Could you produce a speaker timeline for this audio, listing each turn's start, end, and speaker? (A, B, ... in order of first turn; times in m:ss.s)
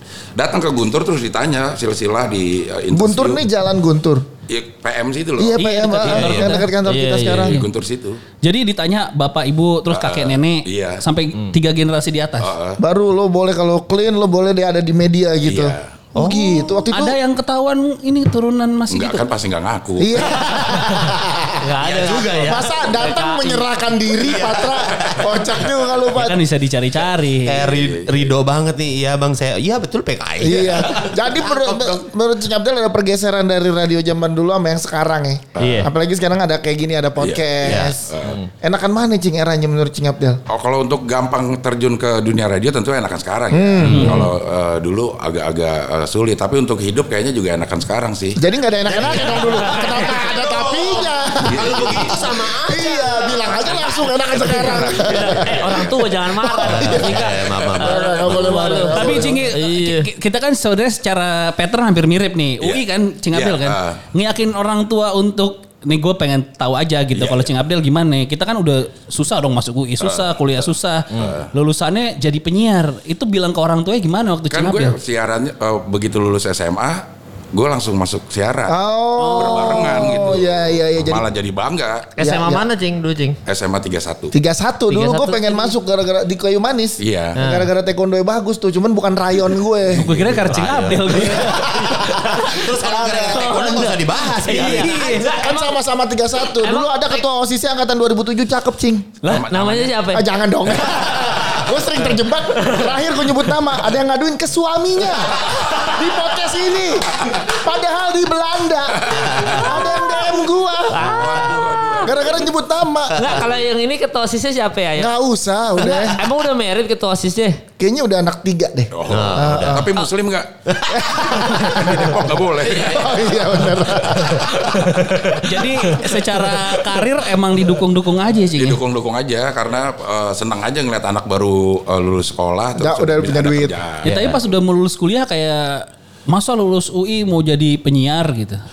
0:00.4-0:03.4 A
0:02.9-0:04.3 B
0:04.5-0:05.6 A
0:05.4-0:07.6 B
0:05.6-0:06.7 C
0:06.1-0:06.6 D
0:06.8-0:07.6 E
0:07.3-0:08.2 A
0:08.4-0:12.5 C
0:09.9-0:11.0 A
0:12.4-0:12.8 A
0:12.8-0:17.2 B
0:15.4-0:16.0 A
0:16.2-0:16.8 D
0:16.9-0:19.2 C
0:18.9-0:20.4 A
0:20.0-0:21.6 B
0:21.6-0:23.7 E
0:21.8-0:22.7 D
0:22.4-0:26.4 B
0:24.2-0:25.3 D
0:26.1-0:27.7 C
0:27.4-0:32.0 D
0:27.6-0:28.3 A
0:30.4-0:38.1 B
0:35.6-0:35.9 A
0:35.6-0:35.9 E
0:37.2-0:38.4 A
0:37.6-0:38.0 D
0:38.6-0:40.4 B
0:40.5-0:48.4 A
0:43.5-0:44.2 B
0:43.9-0:44.3 C
0:43.9-0:44.2 D
0:48.4-0:59.5 B
0:48.9-0:53.4 D
0:49.4-0:50.0 E
0:51.4-0:52.1 A
0:54.3-0:56.0 A
0:54.8-1:00.1 E
0:56.6-0:58.6 D
0:58.7-1:15.0 C
1:02.6-1:04.0 A
1:07.1-1:07.5 A
1:10.0-1:11.5 A
1:14.5-1:18.8 A
1:18.7-1:21.3 B
1:19.2-1:19.9 C
1:19.3-1:22.1 A
1:22.2-1:23.4 E
1:22.2-1:22.7 B
1:23.4-1:24.3 A
1:24.3-1:30.0 B
1:24.9-1:25.7 E
1:27.0-1:27.4 A
1:27.4-1:27.7 E
1:29.9-1:31.9 C
1:30.0-1:30.8 A
1:30.2-1:35.0 D
1:31.3-1:33.9 B
1:31.9-1:32.6 E
1:33.2-1:35.8 E
1:34.4-1:35.4 C
1:35.0-1:39.1 B
1:36.4-1:37.2 E
1:39.2-1:39.5 C
1:39.2-1:40.0 A
1:39.5-1:40.2 E
1:40.1-1:51.3 B
1:42.6-1:43.0 E
1:49.0-1:49.9 A
1:50.9-1:52.1 E
1:51.0-1:52.5 A
1:52.0-1:53.4 B
1:53.1-1:55.1 E
1:55.0-1:56.2 B
1:55.8-1:57.6 E
1:57.8-1:59.9 B
1:58.9-2:03.2 A
1:59.1-1:59.9 D
2:00.7-2:01.0 D
2:00.9-2:05.0 B
2:02.7-2:03.0 E
2:05.4-2:08.8 C
2:05.9-2:06.8 D
2:08.5-2:14.4 A
2:12.8-2:13.8 B
2:14.0-2:14.4 D
2:14.0-2:18.6 C